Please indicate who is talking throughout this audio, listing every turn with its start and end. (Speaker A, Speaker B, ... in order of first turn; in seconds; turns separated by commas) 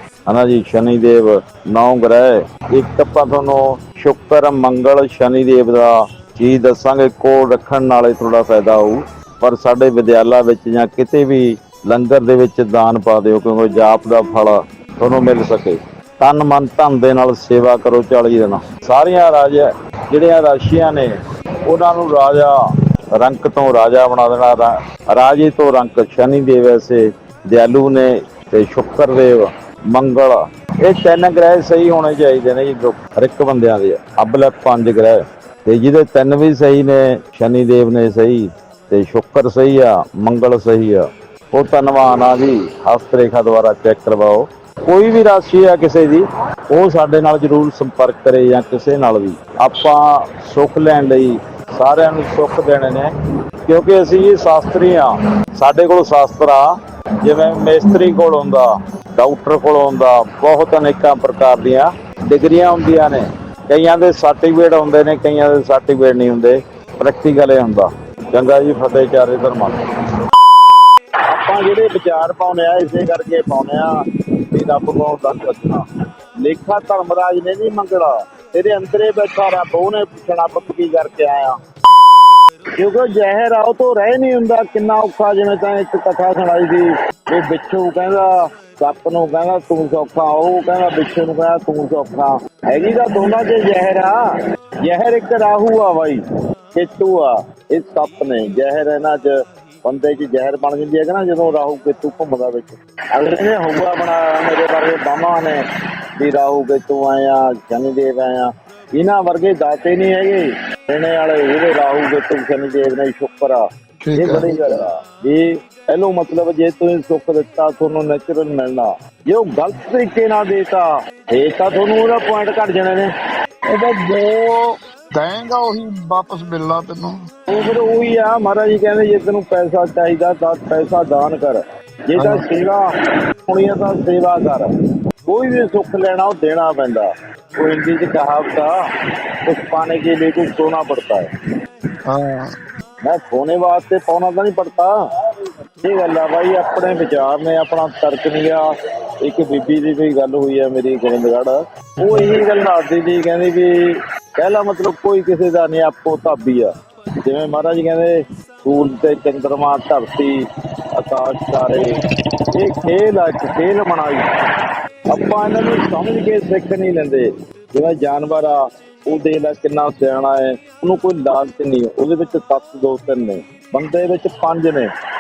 Speaker A: 0.3-21.1, Speaker A: 21.7-22.5, Speaker A: 23.2-53.1, Speaker A: 53.6-56.6, Speaker A: 57.2-58.6, Speaker A: 59.2-69.7, Speaker A: 71.3-73.9, Speaker A: 74.5-75.8, Speaker A: 76.4-81.5, Speaker A: 82.8-94.2, Speaker A: 94.8-96.2, Speaker A: 96.7-99.3, Speaker A: 99.8-105.6, Speaker A: 106.2-113.6, Speaker B: 114.0-114.6, Speaker A: 114.2-123.1, Speaker B: 123.7-127.2, Speaker A: 127.5-132.8, Speaker B: 132.2-132.4, Speaker A: 133.5-134.7, Speaker A: 135.3-138.7, Speaker A: 139.4-141.3, Speaker B: 142.1-142.6, Speaker A: 143.0-148.6, Speaker A: 149.2-156.7, Speaker A: 157.2-160.4, Speaker A: 161.0-161.9, Speaker A: 162.6-164.2, Speaker A: 165.1-174.9